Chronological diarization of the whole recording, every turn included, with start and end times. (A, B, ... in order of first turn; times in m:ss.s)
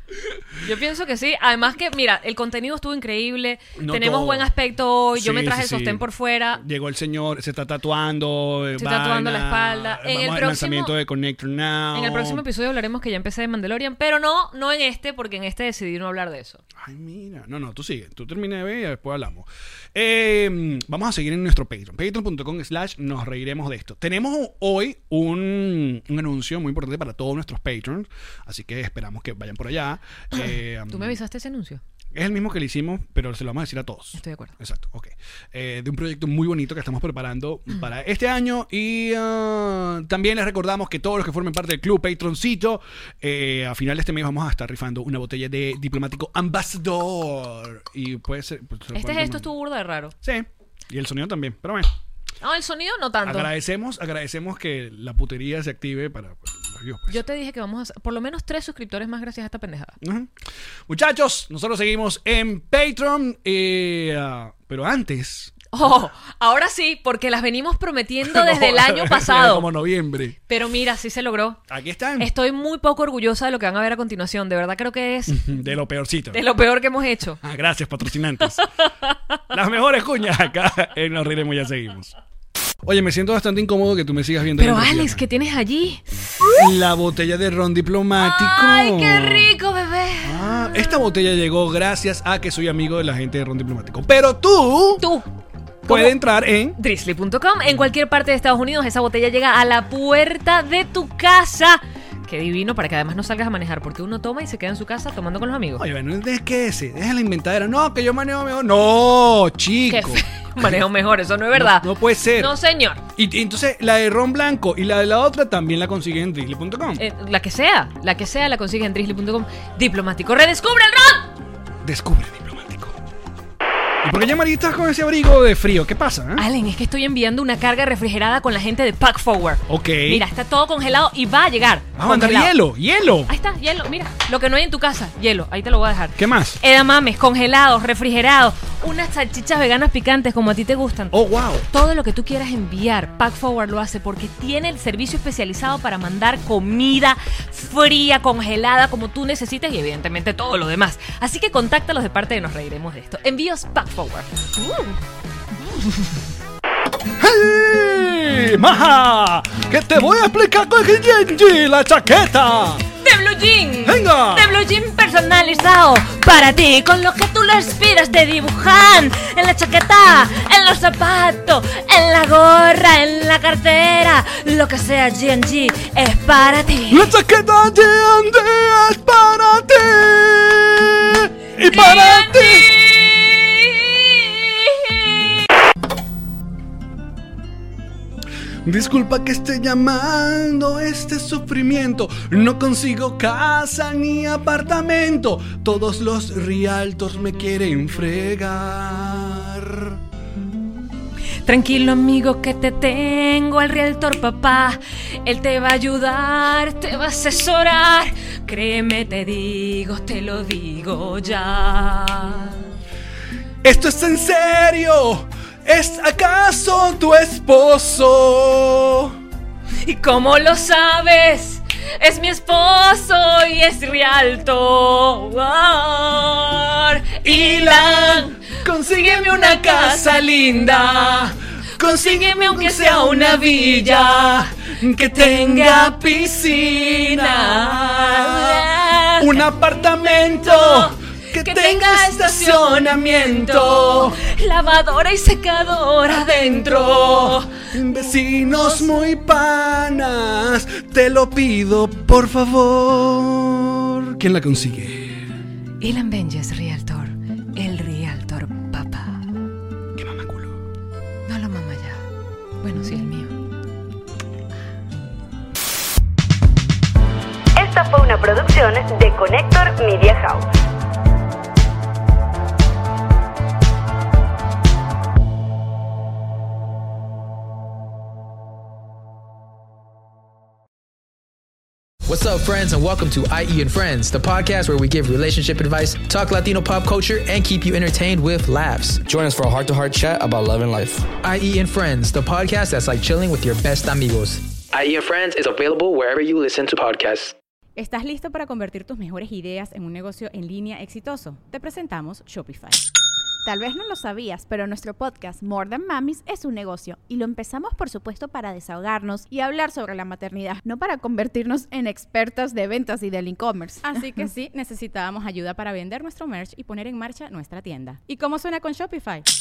0:00.6-0:06.6 A
0:03.8-0:04.5 B
0:05.1-0:06.0 B
0:06.6-0:12.4 B
0:08.8-0:10.9 A
0:11.9-0:16.6 A
0:16.8-0:31.2 B
0:30.3-0:31.8 A
0:32.1-0:49.5 B
0:34.2-0:34.6 A
0:48.9-0:50.1 A
0:50.2-0:51.9 B
0:52.4-0:53.5 A
0:53.2-0:57.2 B
0:57.1-1:00.0 A
1:00.0-1:00.3 B
1:00.9-1:05.7 B
1:05.7-1:09.7 A
1:08.2-1:10.4 B
1:10.5-1:11.6 A
1:11.7-1:12.3 B
1:12.2-1:15.6 A
1:15.3-1:16.4 B
1:16.3-1:17.4 A
1:17.4-1:18.7 B
1:18.6-1:19.2 A
1:19.5-1:22.2 B
1:22.8-1:25.2 B
1:24.6-1:26.6 A
1:26.5-1:29.5 B
1:28.2-1:30.4 A
1:30.2-1:35.1 B
1:35.0-1:35.3 A
1:35.8-1:36.8 B
1:35.9-1:36.1 A
1:36.8-1:45.8 A
1:45.8-1:50.8 B
1:49.9-1:53.0 A
1:51.5-1:52.5 B
1:53.1-1:57.0 B
1:57.0-2:01.3 A
2:01.8-2:03.0 B
2:04.0-2:06.5 B
2:06.4-2:12.5 A
2:09.7-2:10.2 B
2:12.0-2:13.3 B
2:13.3-2:21.2 A
2:16.2-2:16.6 B
2:21.1-2:21.7 B
2:21.7-2:35.0 A
2:35.8-2:36.0 A
2:37.2-2:42.8 B
2:43.0-2:57.1 A
2:43.8-2:44.6 B
2:56.9-3:02.9 B
3:01.6-3:05.4 A
3:08.6-3:20.0 B
3:21.4-3:32.6 A
3:33.6-3:39.2 B
3:39.8-3:54.5 A
3:47.2-4:04.2 B
3:55.0-3:59.4 A
4:00.2-4:07.6 A
4:06.1-4:15.3 B
4:08.5-4:08.8 A
4:15.8-4:19.2 A
4:20.0-4:20.6 B
4:21.3-4:22.0 A
4:22.6-4:23.3 A
4:27.6-4:30.5 C
4:42.0-4:57.0 D
4:49.2-4:50.9 E
4:54.7-4:57.3 E
4:57.8-5:02.8 F
5:03.4-5:14.0 G
5:13.8-5:19.2 F